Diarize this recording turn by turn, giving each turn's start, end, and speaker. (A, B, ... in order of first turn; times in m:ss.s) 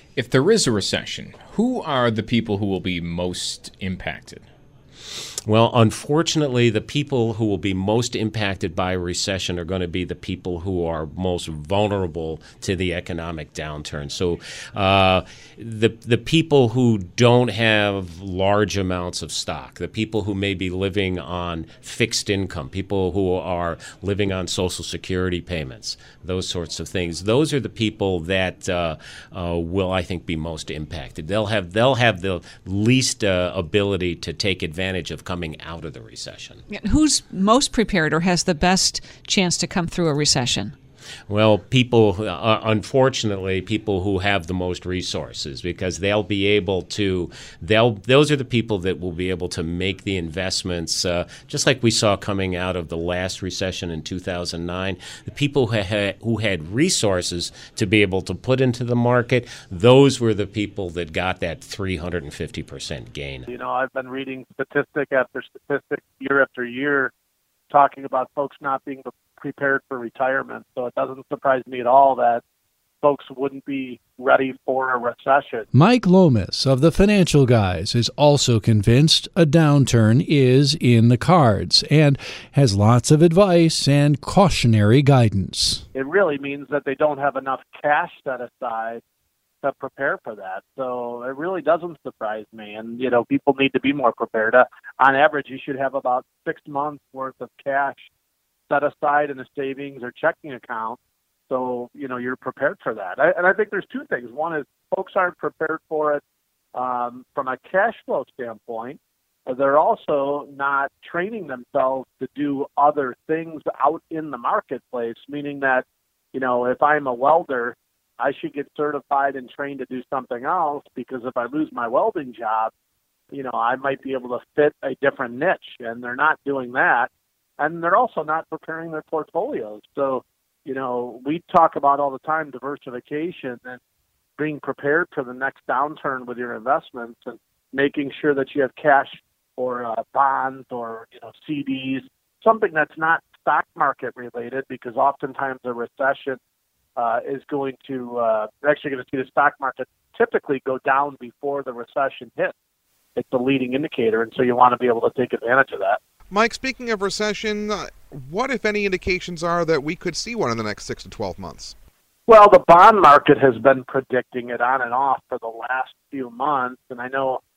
0:00.2-0:04.4 A
0:05.4-0:36.6 B
0:36.7-0:40.7 C
0:41.3-1:03.5 B
1:03.5-1:07.1 D
1:07.7-1:12.4 D
1:13.0-1:15.7 D
1:15.7-1:25.8 E
1:25.9-1:29.0 D
1:29.6-1:38.0 D
1:38.7-1:41.0 D
1:41.5-1:46.2 D
1:46.7-2:02.7 D
2:03.3-2:13.8 D
2:14.4-2:26.4 D
2:27.0-2:32.5 D
2:33.2-2:36.0 D
2:36.3-2:41.8 F
2:42.3-2:47.4 D